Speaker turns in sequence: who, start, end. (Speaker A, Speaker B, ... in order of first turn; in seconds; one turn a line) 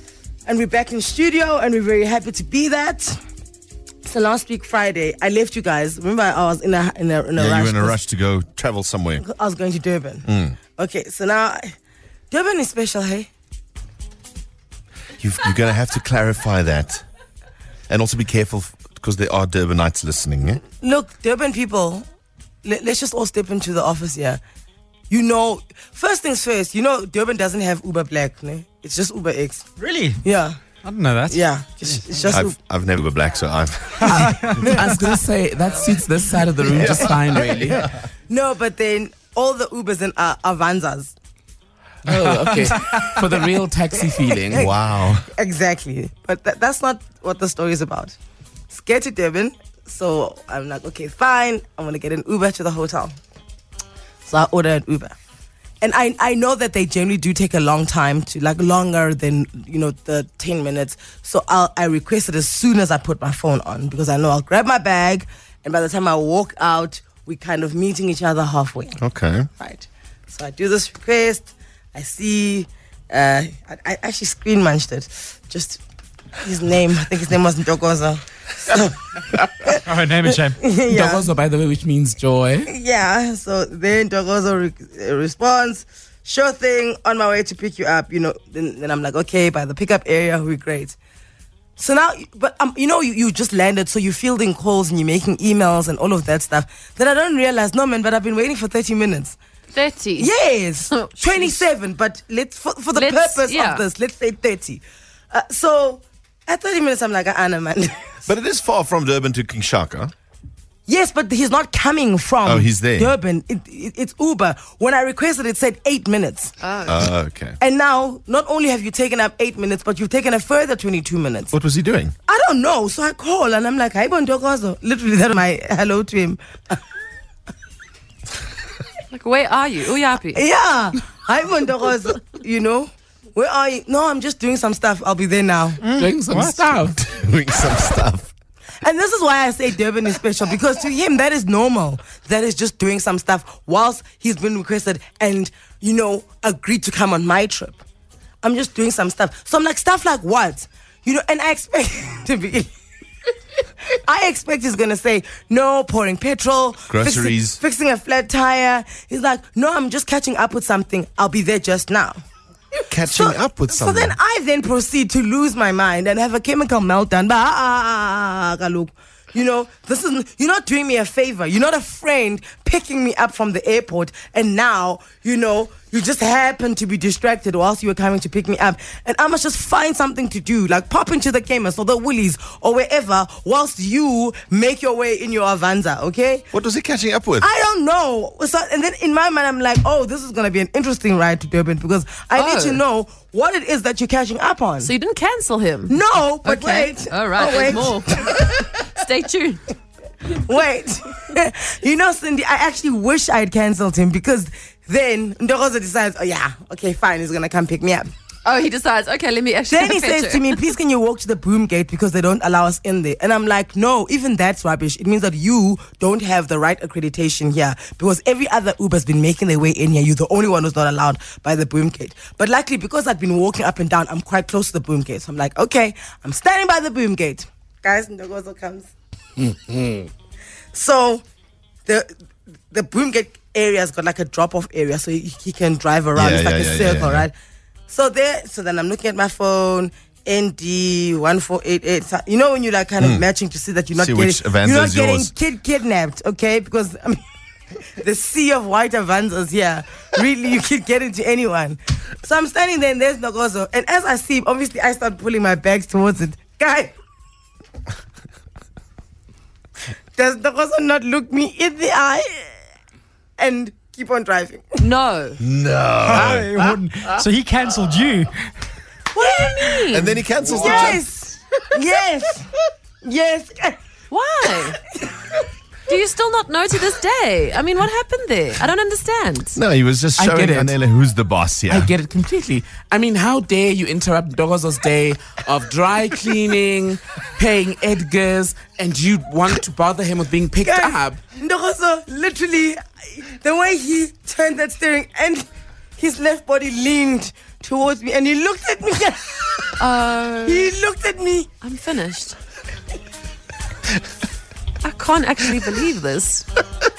Speaker A: 0.5-3.2
Speaker A: 4.0-8.0
Speaker B: 7.4-9.2
Speaker A: 9.2-11.7
Speaker B: 10.3-10.6
Speaker A: 12.3-13.3
Speaker B: 15.2-17.1
Speaker B: 17.9-20.6
Speaker A: 20.8-22.1
Speaker A: 22.6-24.4
Speaker A: 25.1-29.7
Speaker C: 29.8-30.2
Speaker A: 30.2-30.6
Speaker C: 30.8-32.2
Speaker A: 31.3-32.6
Speaker B: 32.3-34.6
Speaker A: 34.5-34.9
Speaker D: 34.6-37.8
Speaker A: 38.3-41.1
Speaker D: 42.0-44.7
Speaker A: 44.3-44.7
Speaker B: 44.5-45.3
Speaker A: 45.3-48.1
Speaker A: 48.7-53.2
Speaker A: 54.3-55.2
Speaker A: 55.8-69.0
Speaker B: 69.0-69.5
Speaker A: 69.6-75.8
Speaker A: 76.4-79.0
Speaker A: 79.6-81.3
Speaker C: 79.7-80.6
Speaker D: 80.9-82.7
Speaker A: 82.7-91.0
Speaker A: 91.8-99.4
Speaker E: 99.7-100.3
Speaker A: 100.2-108.3
Speaker E: 100.9-101.7
Speaker E: 102.9-103.8
Speaker B: 108.3-110.1
Speaker A: 110.9-116.5
Speaker B: 112.4-113.2
Speaker E: 116.6-117.0
Speaker B: 116.9-117.6
Speaker A: 117.6-121.5
Speaker B: 121.5-122.2
Speaker A: 122.3-126.8
Speaker E: 129.1-130.4
Speaker A: 130.3-135.8
Speaker D: 135.9-137.0
Speaker C: 136.3-136.6
Speaker B: 136.3-138.3
Speaker A: 138.8-147.8
Speaker A: 148.4-152.7
Speaker A: 153.9-162.2
Speaker B: 156.9-157.6
Speaker B: 162.9-164.2
Speaker A: 163.0-186.5
Speaker B: 186.5-187.5
Speaker A: 187.4-194.9
Speaker E: 192.3-192.8
Speaker E: 194.8-199.6
Speaker A: 195.9-198.8
Speaker A: 200.3-208.1
Speaker E: 208.4-210.6
Speaker A: 209.7-228.9
Speaker A: 230.7-231.2
Speaker A: 231.9-232.1
Speaker A: 232.7-237.3
Speaker B: 236.2-237.3
Speaker A: 237.9-247.2
Speaker B: 243.9-245.3
Speaker A: 247.8-256.9
Speaker A: 260.2-262.5
Speaker A: 263.4-264.9
Speaker E: 264.8-265.4
Speaker B: 265.4-266.8
Speaker C: 266.1-268.3
Speaker E: 269.1-271.0
Speaker A: 269.2-269.9
Speaker B: 269.9-271.0
Speaker A: 270.5-272.5
Speaker A: 273.0-273.8
Speaker E: 274.1-274.8
Speaker A: 275.0-275.4
Speaker E: 275.9-279.6
Speaker B: 279.6-281.9
Speaker D: 280.2-280.7
Speaker D: 281.7-291.2
Speaker A: 290.6-295.5
Speaker A: 296.0-299.8
Speaker E: 299.8-300.7
Speaker A: 300.4-301.5
Speaker E: 301.6-302.4
Speaker E: 304.8-306.5